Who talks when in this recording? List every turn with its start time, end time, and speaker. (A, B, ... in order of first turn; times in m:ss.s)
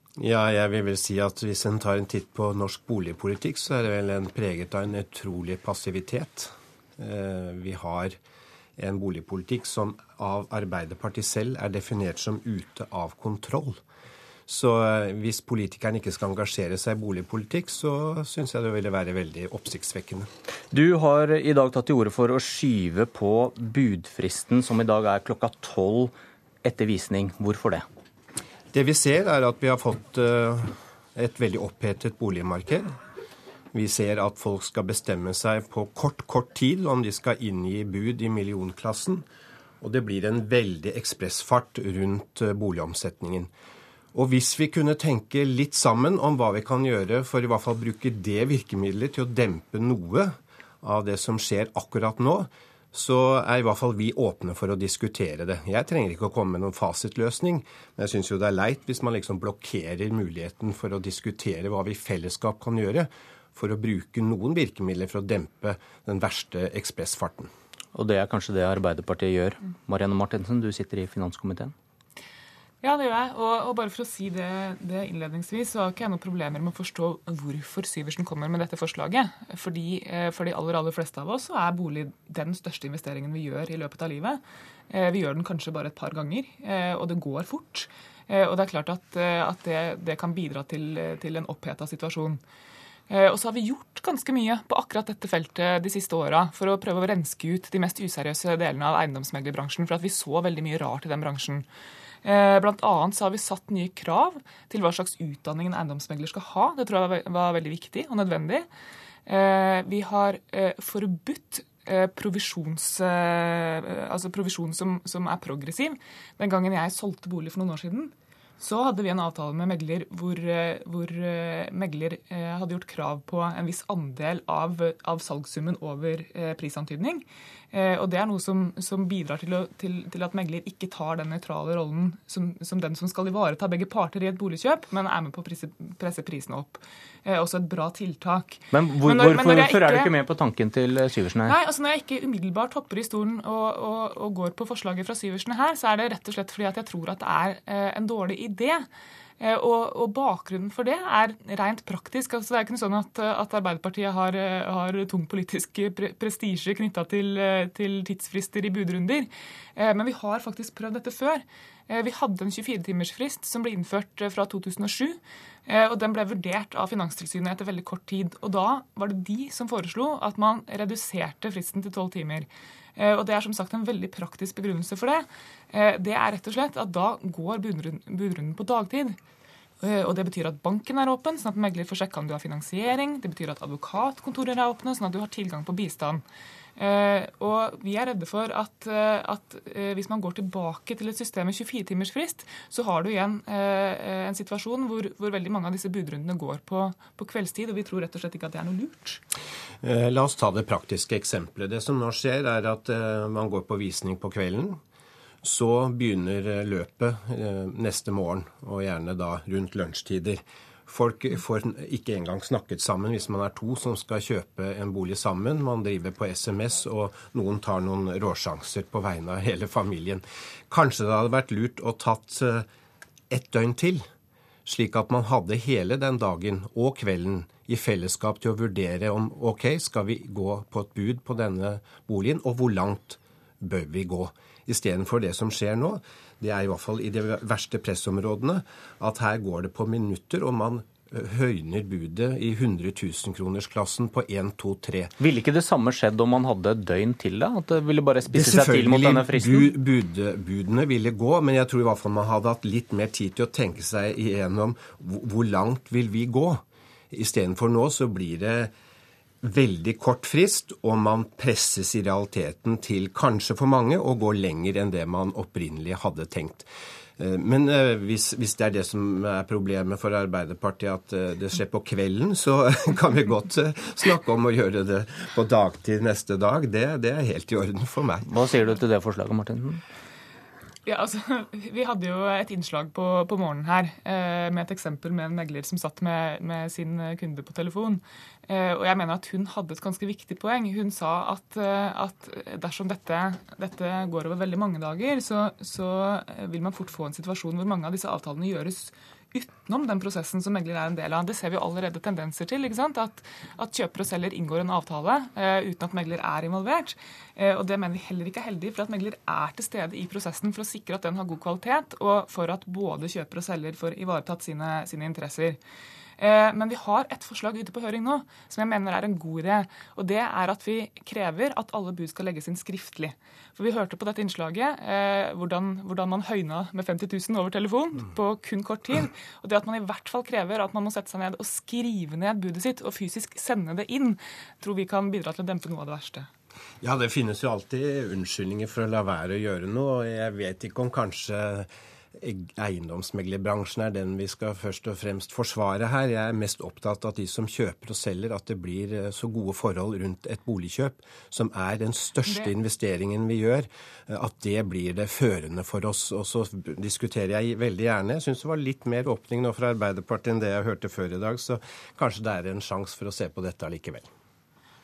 0:00.2-0:08.2 A
0:08.8-0:13.8 A
0:14.5-0:20.3 A
0:20.7-0:26.1 B
0:26.6-0:27.8 B
0:28.7-0:32.9 A
0:33.7-0:39.2 A
0:39.8-0:43.5 A
0:44.1-0:50.3 A
0:50.8-1:07.5 A
1:07.9-1:11.7 B
1:12.8-1:32.4 C
1:33.1-1:41.6 C
1:42.2-1:48.7 C
1:49.3-2:20.1 C
2:18.7-2:21.5 B
2:21.5-2:28.8 C
2:29.4-2:59.2 C
2:59.8-3:06.2 C
3:06.8-3:19.2 C
3:19.8-3:24.8 A
3:25.4-3:42.7 A
3:43.3-3:44.0 A
3:44.7-4:05.1 A
4:05.2-4:09.7 B
4:08.3-4:18.7 A
4:19.4-4:26.7 A
4:27.2-4:38.3 A
4:38.3-4:39.8 B
4:40.9-5:15.6 C
5:16.2-5:36.3 C
5:36.8-5:41.7 A
5:42.2-6:04.1 A
5:52.2-5:52.5 C